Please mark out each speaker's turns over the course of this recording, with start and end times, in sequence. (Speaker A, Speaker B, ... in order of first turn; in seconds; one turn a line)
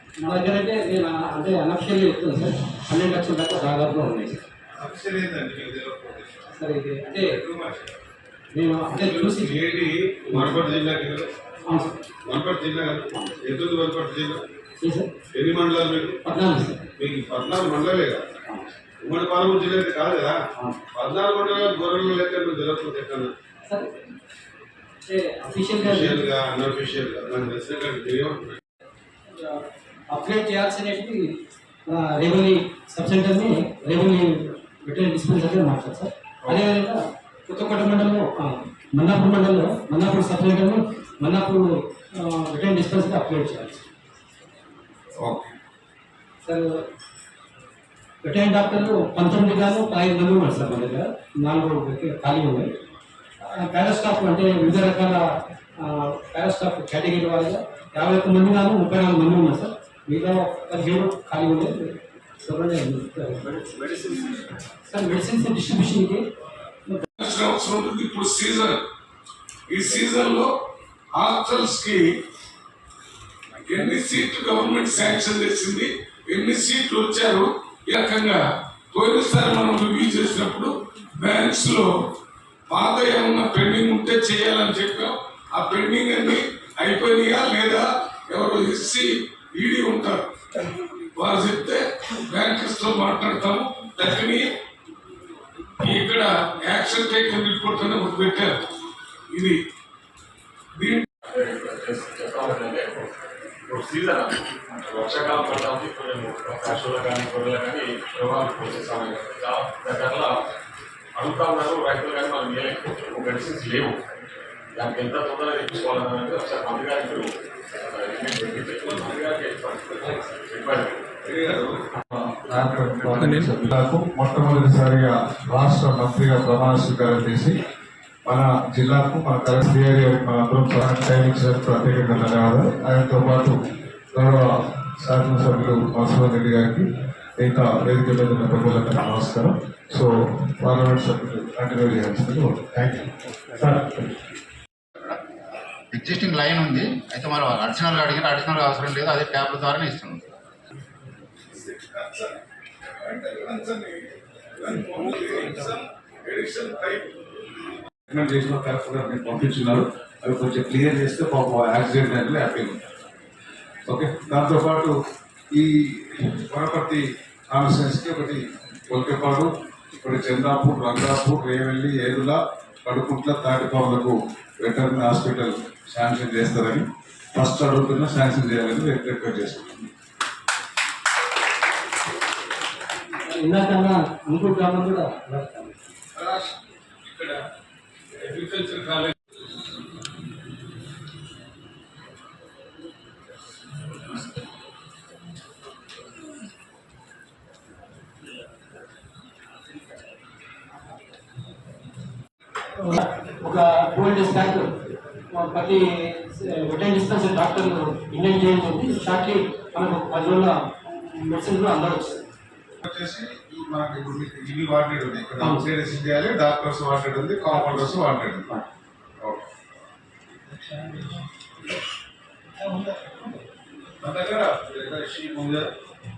Speaker A: 0.2-4.4
Speaker B: 4.7-6.4
Speaker A: 6.5-7.4
Speaker B: 7.3-7.8
Speaker A: 8.5-9.6
Speaker C: 8.9-11.3
Speaker A: 10.3-10.6
Speaker A: 11.6-11.9
Speaker C: 12.2-14.4
Speaker A: 14.8-15.1
Speaker C: 15.3-16.2
Speaker A: 16.2-16.8
Speaker C: 17.0-18.3
Speaker C: 19.0-20.4
Speaker C: 20.9-23.3
Speaker A: 23.7-23.9
Speaker A: 25.1-26.2
Speaker C: 25.7-28.6
Speaker A: 29.5-41.6
Speaker A: 42.2-43.8
Speaker B: 45.2-45.5
Speaker A: 46.4-46.8
Speaker A: 48.2-52.7
Speaker A: 53.4-55.2
Speaker A: 55.8-66.2
Speaker D: 67.2-68.8
Speaker D: 69.7-70.5
Speaker D: 71.1-72.1
Speaker D: 73.6-81.9
Speaker D: 82.7-90.2
Speaker D: 91.2-94.5
Speaker D: 95.8-98.6
Speaker D: 99.3-99.6
Speaker D: 100.8-101.0
Speaker E: 101.2-103.1
Speaker E: 103.7-110.4
Speaker E: 111.1-114.0
Speaker E: 114.7-121.0
Speaker C: 121.2-121.7
Speaker B: 122.1-127.5
Speaker B: 128.2-133.5
Speaker B: 134.1-144.1
Speaker F: 145.9-150.2
Speaker D: 151.5-152.3
Speaker D: 153.0-154.0
Speaker D: 154.6-157.1
Speaker B: 158.1-162.8
Speaker B: 163.8-164.9
Speaker B: 165.5-179.9
Speaker A: 183.3-185.7
Speaker D: 186.2-186.5
Speaker D: 187.0-187.4
Speaker D: 188.2-189.1
Speaker A: 202.8-204.7
Speaker A: 205.3-210.6
Speaker A: 211.1-212.2
Speaker B: 212.8-218.6
Speaker A: 215.4-215.7
Speaker B: 224.0-224.6
Speaker C: 224.6-225.7